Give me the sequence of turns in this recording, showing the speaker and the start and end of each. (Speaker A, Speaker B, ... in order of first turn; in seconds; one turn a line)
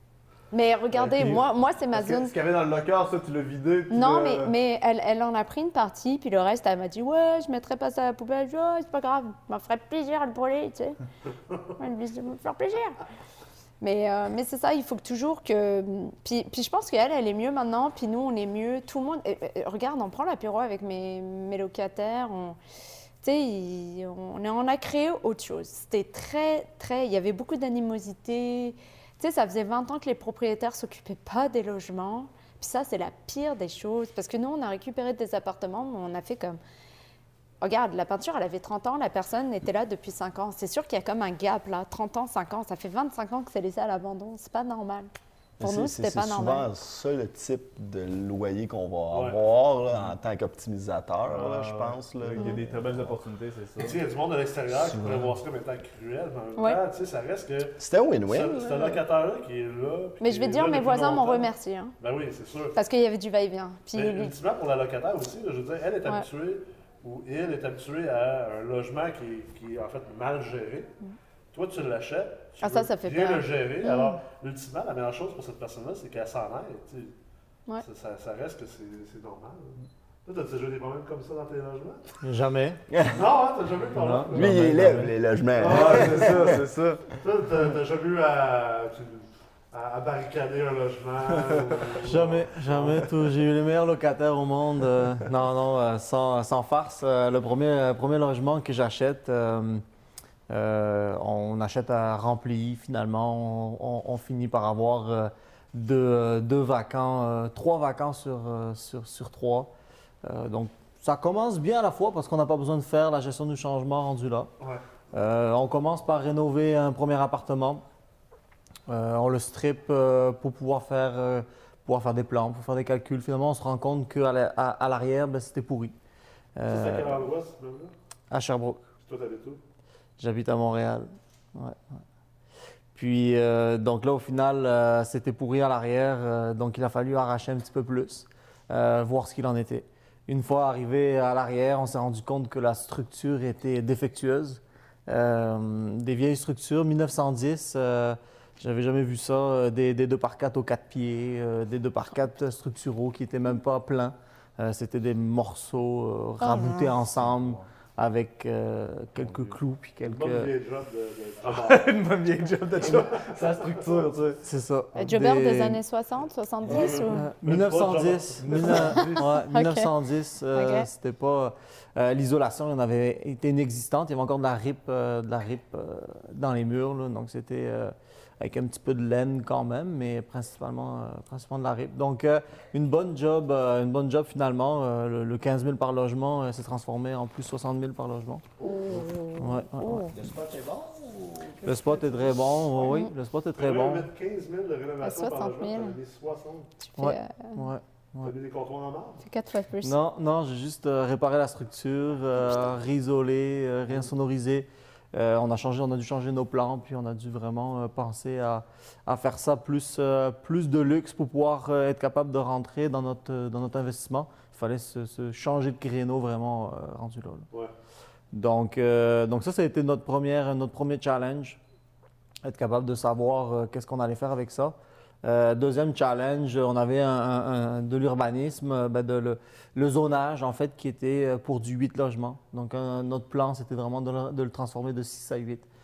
Speaker A: 0.5-2.3
Speaker B: 0.9-4.5
Speaker A: 3.9-11.0
Speaker A: 11.8-13.0
Speaker A: 13.8-22.6
Speaker A: 23.2-36.6
Speaker A: 37.6-45.1
Speaker C: 45.6-53.2
Speaker A: 45.6-46.7
Speaker D: 49.1-49.4
Speaker B: 51.3-54.0
Speaker D: 53.8-62.7
Speaker C: 54.8-55.3
Speaker C: 57.8-58.6
Speaker A: 58.5-59.0
Speaker A: 60.2-61.9
Speaker A: 62.7-64.3
Speaker D: 63.9-71.0
Speaker D: 71.5-77.1
Speaker A: 72.6-74.2
Speaker D: 77.8-82.2
Speaker E: 82.2-82.8
Speaker C: 82.9-83.2
Speaker D: 83.1-84.8
Speaker E: 83.9-85.1
Speaker C: 84.3-86.6
Speaker D: 85.6-86.5
Speaker B: 85.6-87.0
Speaker D: 87.2-93.0
Speaker E: 91.9-99.8
Speaker E: 100.5-109.7
Speaker E: 110.2-114.5
Speaker E: 115.1-117.8
Speaker E: 118.9-125.9
Speaker E: 126.5-127.2
Speaker D: 126.7-127.9
Speaker E: 128.3-128.8
Speaker D: 129.0-129.6
Speaker E: 130.2-132.0
Speaker E: 132.9-160.5
Speaker A: 156.4-156.9
Speaker B: 157.2-157.5
Speaker D: 160.1-161.9
Speaker B: 161.5-164.4
Speaker D: 162.8-163.8
Speaker E: 164.4-165.8
Speaker A: 164.9-167.3
Speaker D: 166.7-169.0
Speaker E: 166.7-188.4
Speaker B: 168.4-169.3
Speaker A: 168.9-169.9
Speaker A: 170.5-170.9
Speaker C: 188.6-189.1
Speaker A: 188.6-190.2
Speaker E: 189.4-190.2
Speaker C: 190.1-192.6
Speaker E: 191.6-194.1
Speaker A: 192.8-193.1
Speaker D: 193.6-196.7
Speaker A: 195.0-195.9
Speaker A: 196.8-197.7
Speaker E: 197.0-198.3
Speaker D: 198.2-199.2
Speaker A: 199.2-199.9
Speaker E: 199.8-217.5
Speaker E: 218.3-221.6
Speaker E: 222.4-235.7